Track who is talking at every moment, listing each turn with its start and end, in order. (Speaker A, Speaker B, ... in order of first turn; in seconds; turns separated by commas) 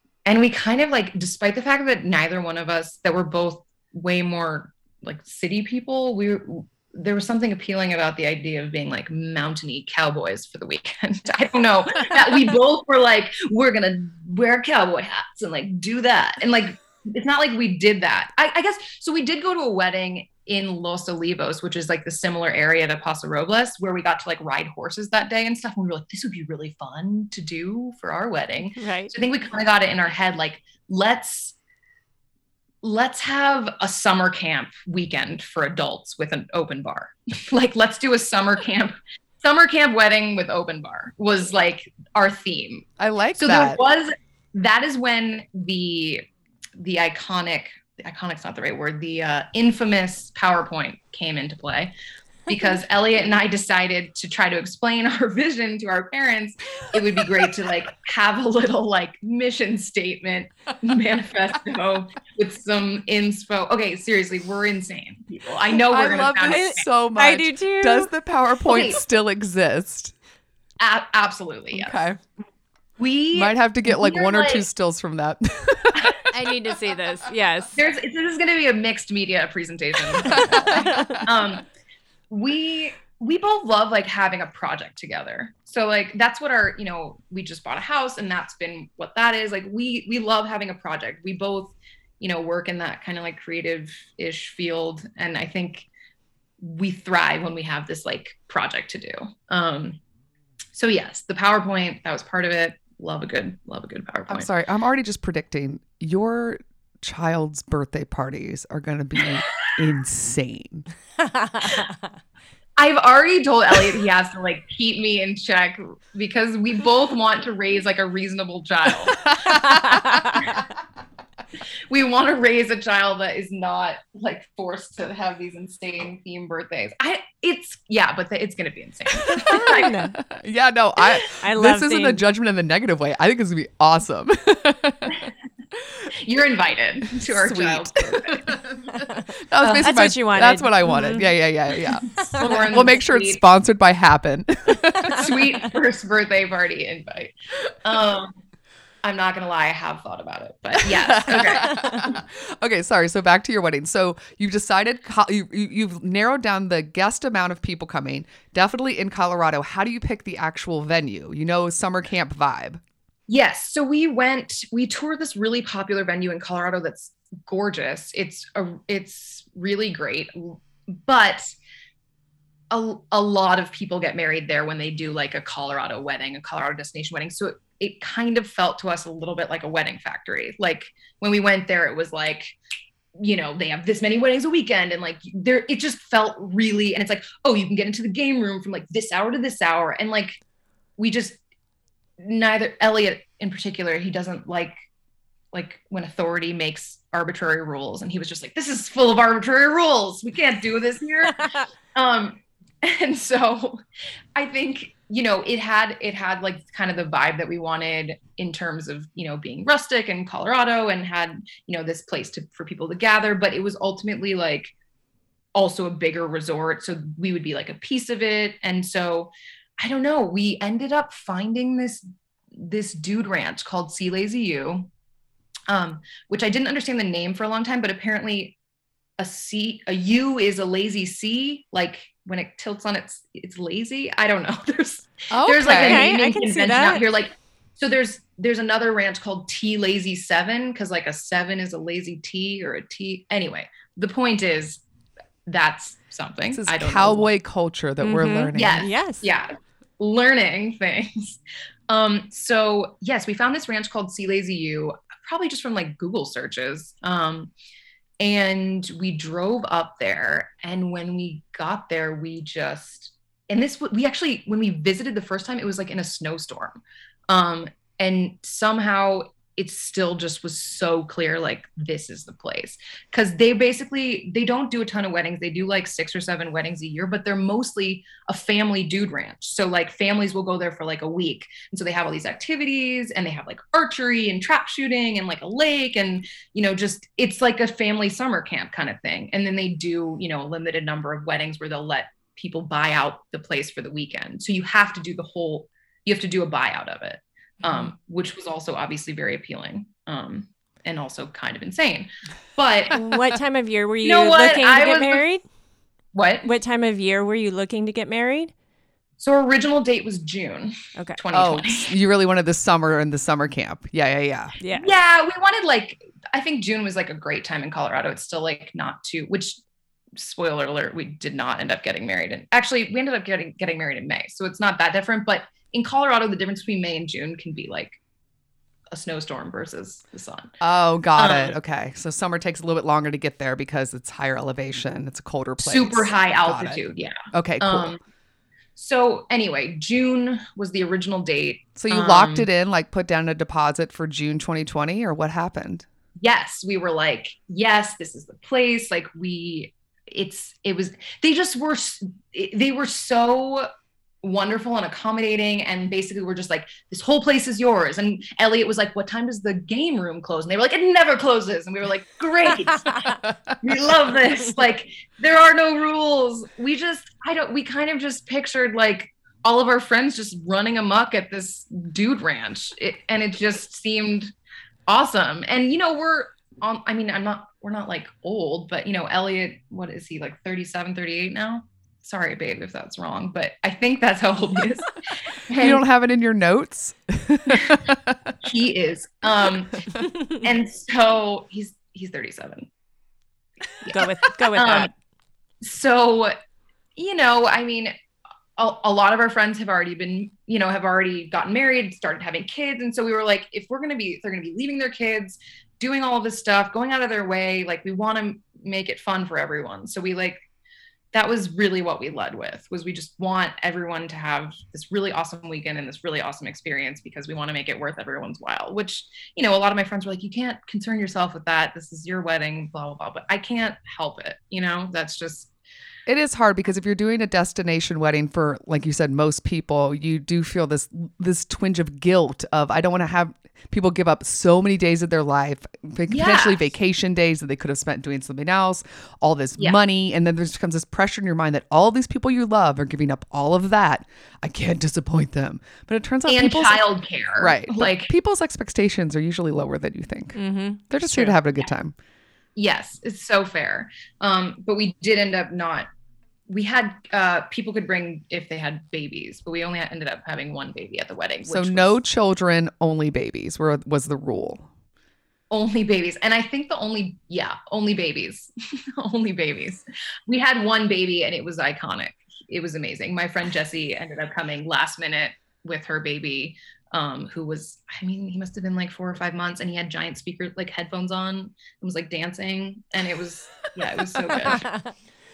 Speaker A: 0.2-31.5, Speaker B: 28.8-29.1, Speaker A: 32.8-46.2, Speaker C: 43.0-43.8, Speaker A: 46.8-51.9, Speaker A: 52.5-66.8, Speaker C: 65.7-70.1, Speaker B: 66.5-68.1, Speaker A: 68.7-69.0, Speaker A: 70.8-72.0, Speaker C: 71.7-72.2, Speaker A: 73.0-74.7, Speaker C: 73.3-76.3, Speaker B: 76.3-77.8, Speaker A: 77.8-81.6, Speaker C: 80.2-81.2, Speaker B: 80.7-81.1, Speaker A: 82.3-95.9, Speaker A: 96.6-100.0, Speaker A: 100.7-104.5, Speaker C: 104.3-110.9, Speaker B: 111.4-111.9, Speaker A: 112.8-119.2, Speaker C: 119.3-120.4, Speaker B: 119.9-120.2, Speaker A: 121.9-129.9, Speaker C: 129.3-135.2, Speaker B: 129.7-130.2, Speaker B: 131.4-132.2, Speaker A: 136.2-138.6, Speaker C: 137.2-145.3, Speaker A: 139.6-139.9, Speaker B: 139.8-141.3, Speaker A: 142.3-143.4, Speaker A: 145.1-147.3, Speaker A: 147.8-148.4, Speaker A: 149.0-151.8, Speaker C: 150.8-162.8, Speaker A: 163.3-171.5, Speaker A: 172.7-182.5, Speaker A: 183.1-190.4, Speaker A: 191.0-191.4, Speaker A: 192.2-194.7, Speaker A: 195.5-203.8, Speaker A: 204.3-214.7, Speaker A: 215.5-224.9, Speaker A: 225.7-228.6, Speaker A: 229.2-244.8, Speaker C: 235.3-236.1, Speaker B: 235.7-237.0, Speaker A: 245.4-247.3, Speaker C: 246.5-248.9, Speaker B: 248.0-249.3, Speaker A: 248.5-257.5, Speaker A: 258.2-303.0, Speaker B: 302.9-305.4, Speaker A: 304.0-305.2, Speaker A: 306.1-306.5, Speaker B: 306.4-308.5, Speaker A: 309.2-311.9, Speaker C: 311.3-314.5, Speaker B: 314.6-314.9, Speaker A: 314.7-319.6, Speaker A: 320.1-328.0, Speaker A: 328.9-330.5, Speaker C: 330.6-337.9, Speaker A: 331.1-331.5, Speaker A: 335.6-338.0, Speaker A: 338.8-342.5, Speaker C: 341.8-345.8, Speaker A: 346.2-353.7, Speaker A: 354.2-363.0, Speaker A: 363.6-374.3, Speaker A: 374.9-385.8, Speaker C: 385.6-388.3, Speaker A: 388.4-392.7, Speaker A: 393.8-394.9, Speaker B: 393.9-394.9, Speaker A: 395.6-396.3, Speaker A: 396.9-397.9, Speaker A: 398.6-410.4, Speaker A: 411.1-425.5, Speaker C: 426.1-446.8, Speaker A: 436.1-436.6, Speaker A: 446.3-448.1, Speaker C: 447.4-450.4, Speaker B: 450.3-451.4, Speaker C: 450.9-451.9, Speaker A: 452.6-455.9, Speaker A: 456.5-462.0, Speaker C: 461.4-464.7, Speaker A: 465.5-484.7